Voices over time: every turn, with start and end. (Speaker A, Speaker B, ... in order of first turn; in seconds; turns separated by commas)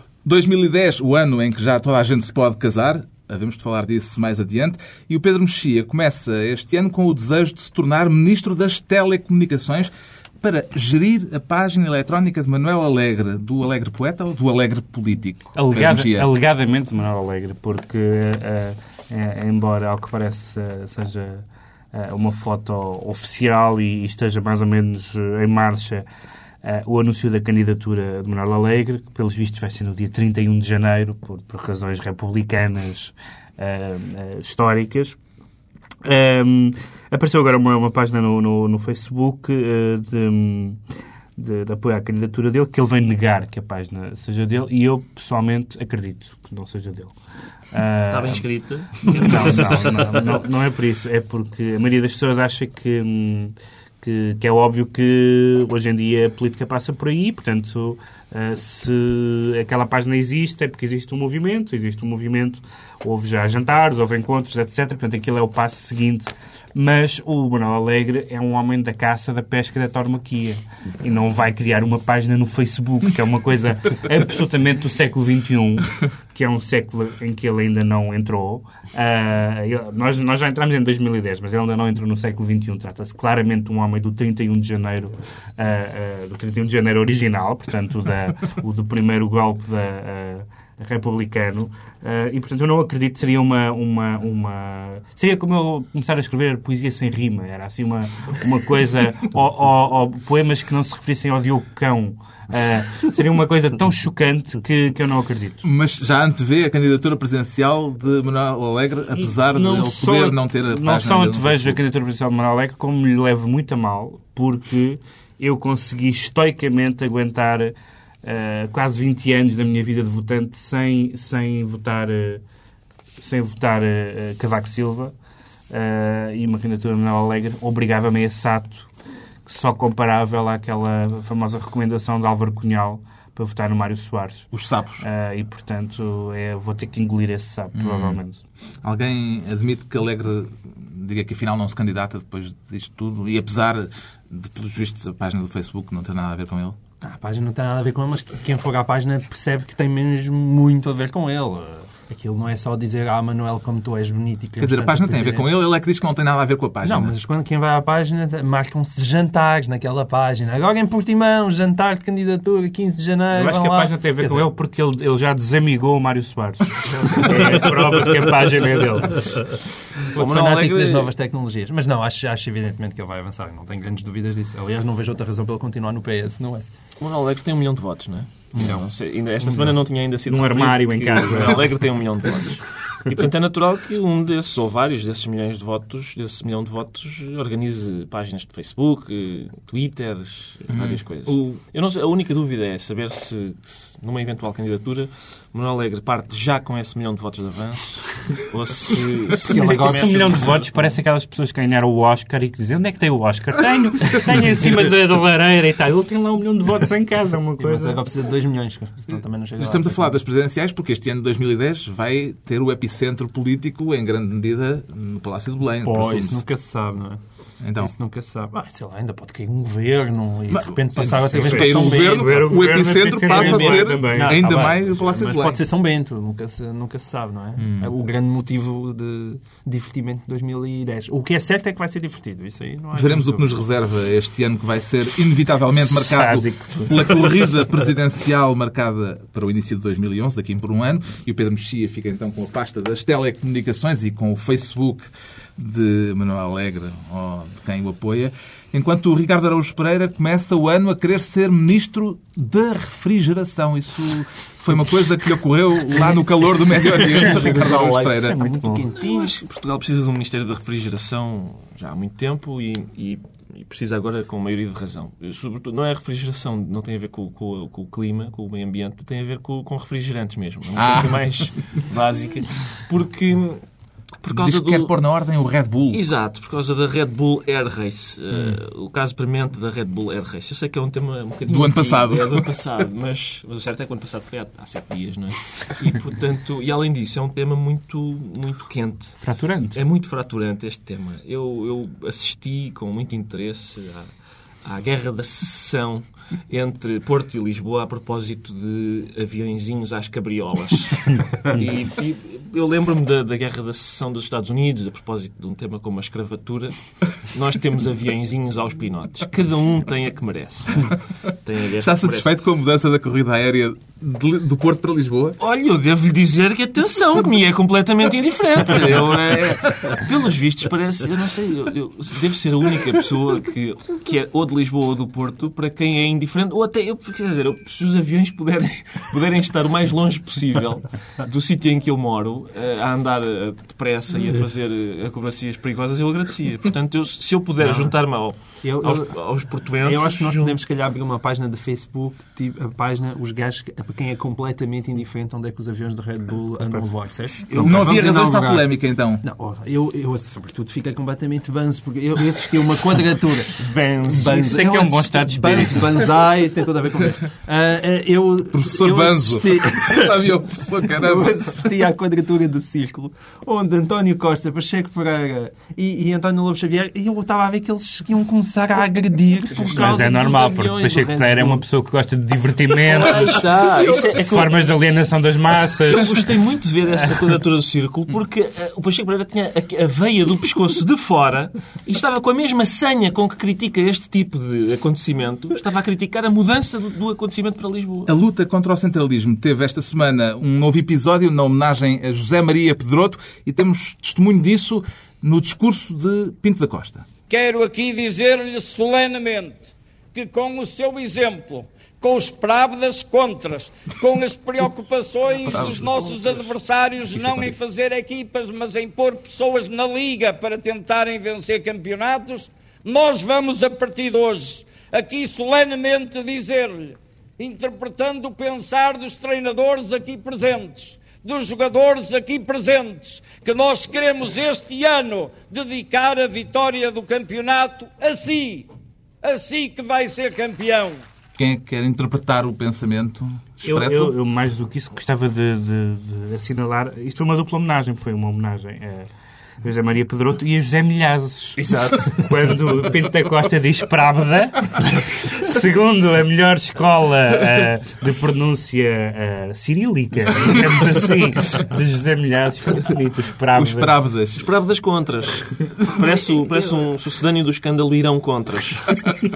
Speaker A: 0.2-16.3, Speaker B: 15.5-26.0, Speaker B: 26.6-35.2, Speaker B: 36.0-40.8, Speaker B: 41.4-47.1, Speaker B: 47.7-48.4, Speaker C: 48.1-50.4, Speaker B: 49.0-105.6, Speaker A: 105.6-111.8, Speaker B: 109.2-122.4, Speaker B: 123.2-125.1, Speaker B: 125.7-128.9, Speaker B: 129.4-134.5, Speaker A: 134.5-135.0, Speaker B: 135.0-138.4, Speaker A: 137.7-138.2, Speaker A: 138.8-146.8, Speaker D: 147.0-155.5, Speaker A: 154.6-157.1, Speaker D: 156.8-164.5, Speaker B: 163.3-169.5, Speaker C: 170.1-171.1, Speaker D: 170.1-176.7, Speaker C: 177.0-200.8, Speaker D: 178.6-178.8, Speaker B: 180.3-181.7, Speaker A: 190.7-191.5, Speaker D: 199.4-200.5, Speaker B: 199.5-208.0, Speaker D: 207.6-210.1, Speaker A: 209.6-216.4, Speaker D: 215.8-217.2, Speaker A: 217.6-217.9, Speaker D: 217.8-222.6, Speaker A: 220.5-225.6, Speaker B: 221.3-224.6, Speaker D: 223.3-233.5, Speaker A: 227.6-227.9, Speaker A: 232.9-258.4, Speaker B: 235.8-237.3, Speaker D: 256.9-259.4, Speaker B: 258.3-258.8, Speaker C: 258.9-273.6, Speaker A: 270.8-271.3, Speaker C: 274.2-274.9, Speaker A: 274.3-276.0, Speaker C: 275.9-294.1, Speaker A: 281.5-282.4, Speaker B: 289.2-289.8, Speaker C: 294.6-312.3, Speaker A: 311.8-315.4, Speaker C: 315.4-340.6, Speaker D: 337.6-337.9, Speaker D: 338.6-339.2, Speaker D: 339.8-371.6, Speaker A: 347.6-349.2, Speaker C: 353.6-354.4, Speaker B: 354.3-356.1, Speaker A: 358.5-361.5, Speaker B: 369.7-376.3, Speaker C: 372.9-374.7, Speaker C: 375.9-388.1, Speaker A: 388.1-397.0, Speaker E: 397.3-428.7, Speaker A: 405.4-406.4, Speaker A: 407.1-407.5, Speaker E: 429.2-431.0, Speaker A: 431.4-434.1, Speaker B: 433.6-439.1, Speaker B: 439.6-453.9, Speaker C: 441.6-442.0, Speaker A: 453.6-454.4, Speaker C: 454.3-459.0